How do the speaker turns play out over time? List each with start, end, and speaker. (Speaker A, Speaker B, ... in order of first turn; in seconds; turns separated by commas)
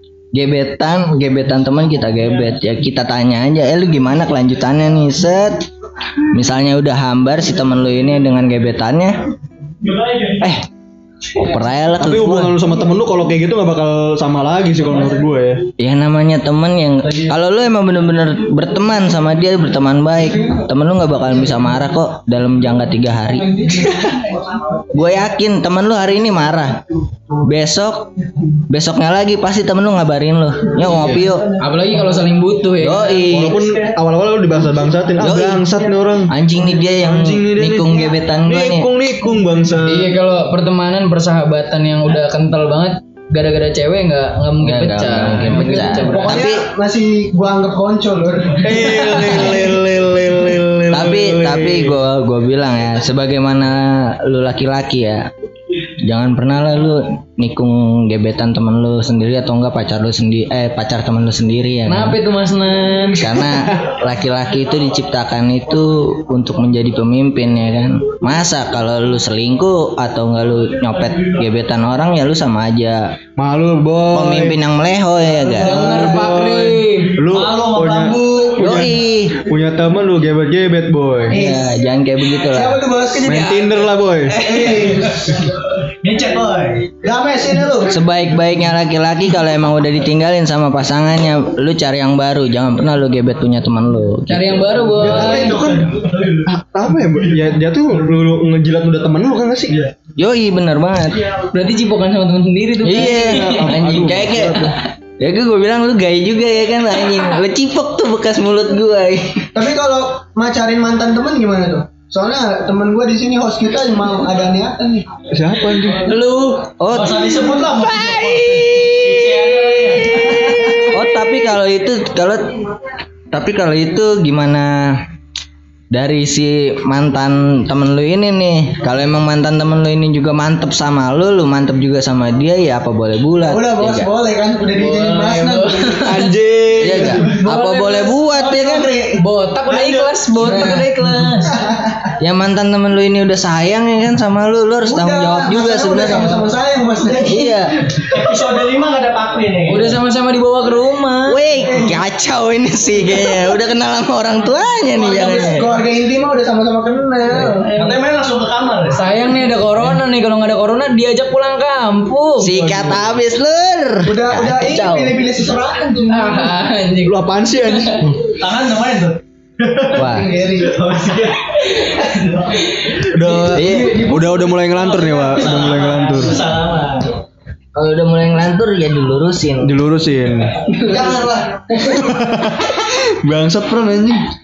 Speaker A: 0.3-5.7, Speaker A: 6.3-9.2, Speaker A: 10.4-10.7, Speaker A: 11.4-12.6, Speaker B: 12.0-15.6, Speaker A: 15.8-24.2, Speaker A: 24.9-26.8, Speaker A: 27.4-28.1, Speaker A: 28.7-31.5, Speaker B: 30.8-31.3, Speaker C: 31.6-33.2, Speaker A: 32.8-33.8, Speaker B: 33.3-40.1, Speaker A: 35.2-35.6, Speaker A: 36.3-38.9, Speaker C: 39.9-46.4, Speaker A: 44.6-46.6, Speaker D: 46.1-49.0, Speaker B: 48.6-52.0, Speaker C: 48.9-49.6, Speaker A: 50.9-55.3, Speaker A: 56.0-62.2, Speaker C: 61.9-63.3, Speaker A: 63.2-73.1, Speaker B: 73.4-74.6, Speaker A: 74.1-76.0, Speaker B: 75.5-81.4, Speaker C: 75.6-77.2, Speaker E: 77.3-78.3, Speaker D: 78.0-78.6, Speaker A: 78.6-79.4, Speaker A: 81.3-82.8, Speaker D: 81.3-81.6, Speaker D: 82.4-83.5, Speaker B: 83.2-84.4, Speaker C: 83.3-85.1, Speaker D: 84.4-85.3, Speaker E: 86.0-86.9, Speaker D: 87.0-88.0, Speaker A: 87.9-94.8, Speaker C: 94.3-95.6, Speaker B: 95.0-99.8, Speaker D: 95.1-95.8, Speaker E: 95.2-96.4, Speaker A: 100.2-101.3, Speaker C: 101.5-103.8, Speaker A: 102.8-109.5, Speaker B: 102.9-104.8, Speaker D: 109.5-115.0, Speaker B: 115.3-116.0, Speaker C: 116.0-116.7, Speaker A: 116.8-122.5, Speaker E: 116.9-120.9, Speaker A: 123.3-125.0, Speaker A: 125.9-134.1, Speaker D: 133.4-136.0, Speaker C: 134.7-136.3, Speaker B: 136.0-137.2, Speaker A: 136.8-138.9, Speaker C: 137.1-138.2, Speaker D: 138.3-140.2, Speaker C: 139.2-141.5, Speaker A: 140.3-140.9, Speaker D: 141.5-142.1, Speaker A: 142.2-146.4, Speaker D: 144.8-147.6, Speaker A: 147.2-147.8, Speaker E: 148.1-150.0, Speaker C: 149.7-151.4, Speaker A: 151.3-155.7, Speaker D: 154.9-157.7, Speaker E: 157.6-159.1, Speaker C: 158.9-162.8, Speaker A: 162.4-165.2, Speaker D: 164.0-166.5, Speaker C: 166.1-168.1, Speaker B: 167.1-168.2, Speaker E: 168.2-170.0, Speaker D: 169.9-171.0, Speaker A: 169.9-170.3, Speaker E: 170.6-172.5, Speaker B: 173.1-176.4, Speaker A: 173.5-174.0, Speaker D: 173.6-174.3, Speaker E: 174.8-177.1, Speaker A: 177.7-179.7, Speaker B: 179.6-180.6, Speaker D: 180.8-181.9, Speaker B: 181.9-184.2